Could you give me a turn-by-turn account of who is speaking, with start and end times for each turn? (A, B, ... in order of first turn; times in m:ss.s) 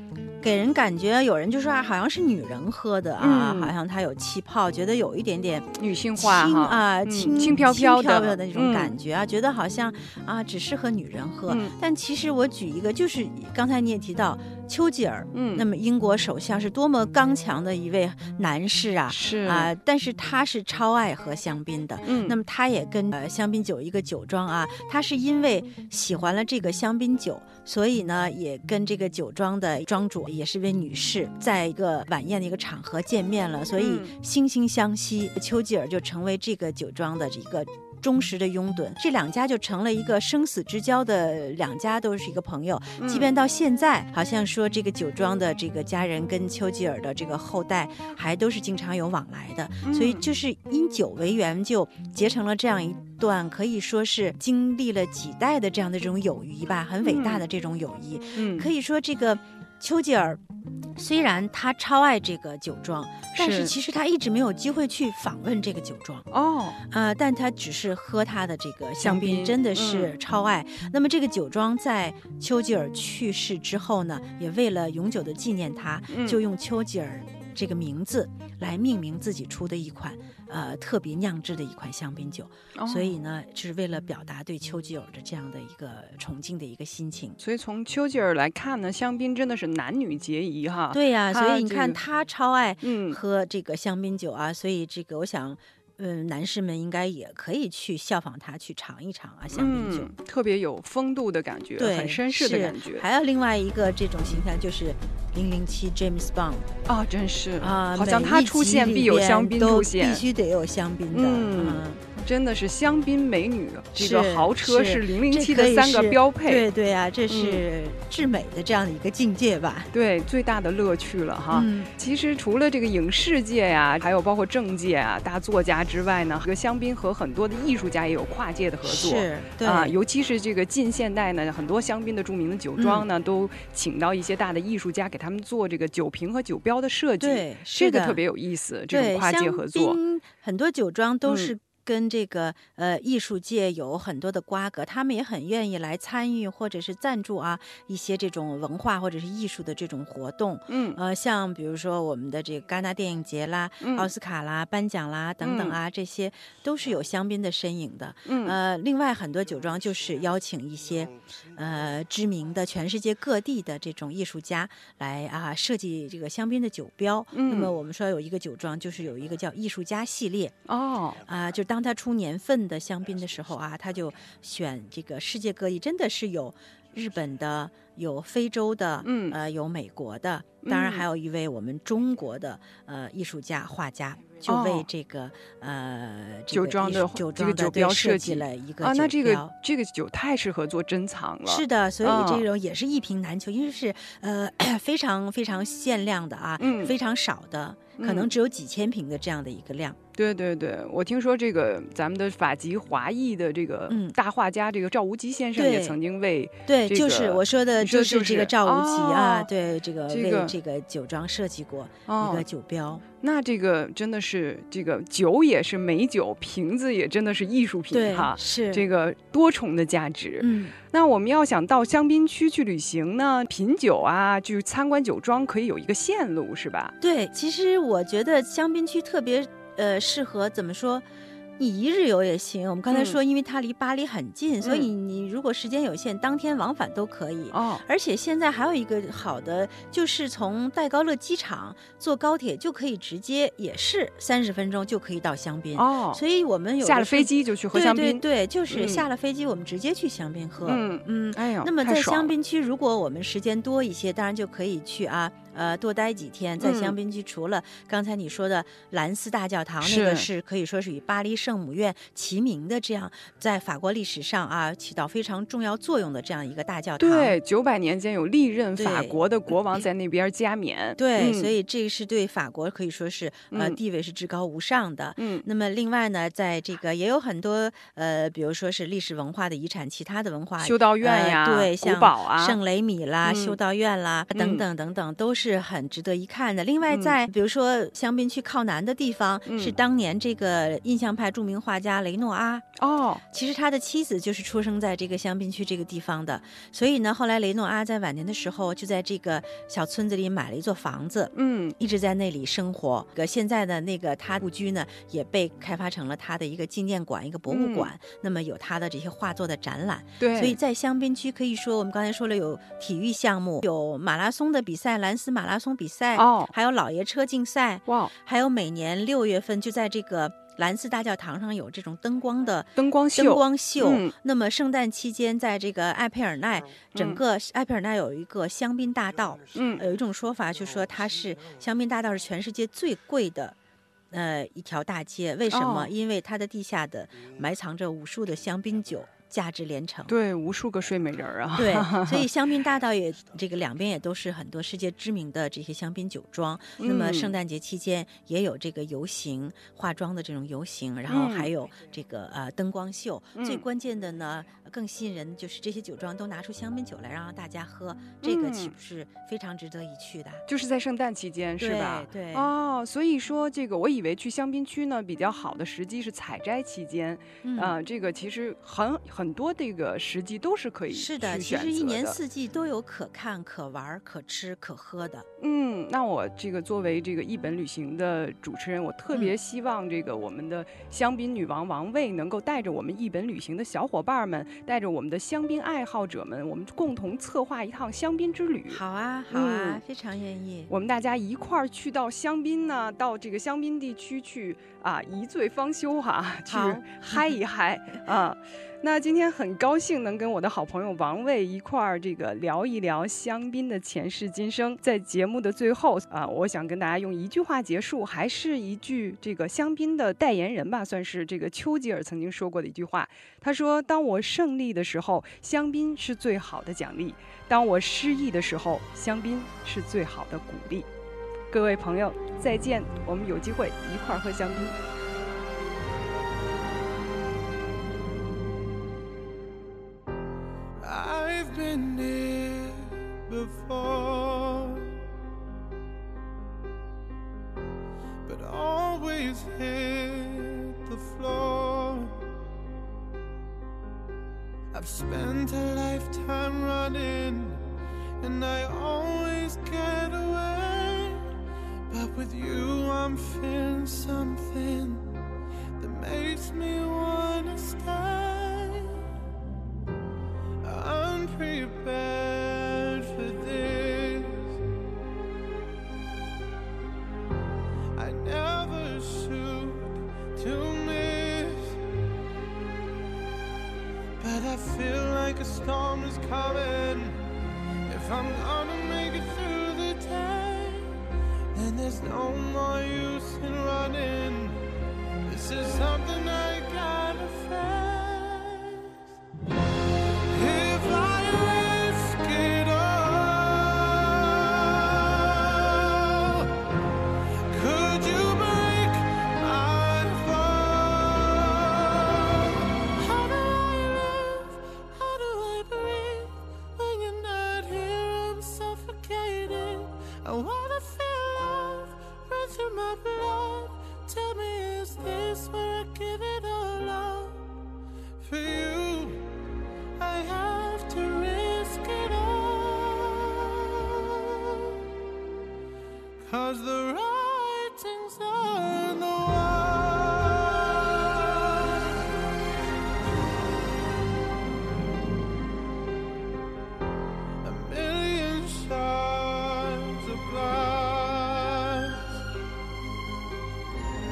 0:00.4-1:00.4 A
0:03.2-0:03.7 B
0:05.8-0:08.9 B
0:11.5-0:11.7 B
0:15.3-0:15.6 B
0:19.1-0:19.7 B
0:22.0-0:22.4 B
0:33.8-0:34.1 B
0:43.0-0:43.3 B
0:49.8-0:50.2 B
0:57.0-0:57.4 B
0:58.4-0:58.7 B
1:01.0-1:06.2 A
1:03.3-1:03.7 B
1:06.3-1:06.8 B
1:06.8-1:27.4 A
1:09.0-1:10.1 B
1:16.1-1:16.4 B
1:22.7-1:23.2 B
1:27.4-1:32.0 B
1:30.9-1:40.1 A
1:32.8-1:33.2 B
1:39.5-1:43.0 B
1:41.8-1:46.8 A
1:46.9-1:50.2 B
1:47.6-1:52.0 A
1:51.1-1:56.6 B
1:54.0-1:59.9 A
1:57.3-1:57.6 B
1:59.9-2:20.0 B
2:01.5-2:01.9 A
2:08.8-2:10.0 A
2:12.8-2:13.1 A
2:17.2-2:18.2 A
2:18.9-2:50.5 A
2:21.2-2:21.5 B
2:30.7-2:31.0 B
2:33.8-2:34.1 B
2:35.4-2:35.8 B
2:38.2-2:38.6 B
2:47.3-2:47.7 B
2:50.7-2:51.2 B
2:51.2-3:09.5 A
2:59.0-2:59.4 B
3:00.6-3:01.0 B
3:04.4-3:04.9 B
3:06.5-3:12.4 B
3:11.4-3:20.0 A
3:16.6-3:16.9 B
3:18.0-3:18.3 B
3:20.2-3:29.5 B
3:23.9-3:24.1 A
3:25.6-3:26.0 A
3:26.7-3:33.0 A
3:30.1-3:30.5 B
3:32.1-3:32.4 B
3:33.2-3:46.9 B
3:37.9-3:38.9 A
3:40.4-3:40.7 A
3:47.0-3:51.0 A
3:51.6-4:27.4 A
3:52.9-3:53.2 B
3:54.6-3:54.9 B
3:57.5-3:57.8 B
4:05.8-4:06.2 B
4:06.8-4:09.0 B
4:10.6-4:12.3 B
4:16.6-4:16.9 B
4:19.8-4:20.3 B
4:27.0-4:31.5 B
4:28.8-4:29.8 A
4:31.0-4:52.7 A
4:33.5-4:33.8 B
4:35.2-4:35.4 B
4:40.6-4:42.6 B
4:43.2-4:43.6 B
4:44.3-4:44.6 B
4:46.9-4:47.1 B
4:49.4-4:49.7 B
4:52.8-4:53.2 B
4:53.3-5:33.6 A
5:01.3-5:01.8 B
5:07.5-5:07.9 B
5:10.2-5:10.6 B
5:16.1-5:16.5 B
5:17.9-5:18.1 B
5:22.8-5:24.1 B
5:26.9-5:27.2 B
5:29.5-5:29.8 B
5:34.1-5:40.1 A
5:35.5-5:35.9 B
5:40.1-5:42.3 B
5:41.5-6:00.4 A
5:46.8-5:47.3 B
5:51.1-5:51.5 B
5:53.4-5:53.6 B
5:58.2-5:58.7 B
6:00.5-6:12.2 B
6:01.6-6:02.5 A
6:07.4-6:07.8 A
6:10.9-6:15.2 A
6:15.4-6:29.8 B
6:28.7-6:30.7 A
6:30.7-7:00.9 B
6:36.5-6:37.3 A
7:01.5-7:04.8 B
7:10.8-7:14.9 C
7:18.2-7:22.2 C
7:24.7-7:27.6 C
7:28.2-7:31.2 C
7:31.9-7:35.1 C
7:35.8-7:38.9 C
7:40.6-7:44.6 C
7:47.9-7:51.8 C
7:54.2-7:57.2 C
7:57.9-8:00.9 C
8:01.5-8:04.6 C
8:05.2-8:08.9 C
8:10.3-8:16.5 C
8:17.5-8:37.4 C
8:38.2-8:39.2 C
8:40.0-8:44.7 C
8:46.2-8:51.7 C
8:57.4-9:02.2 C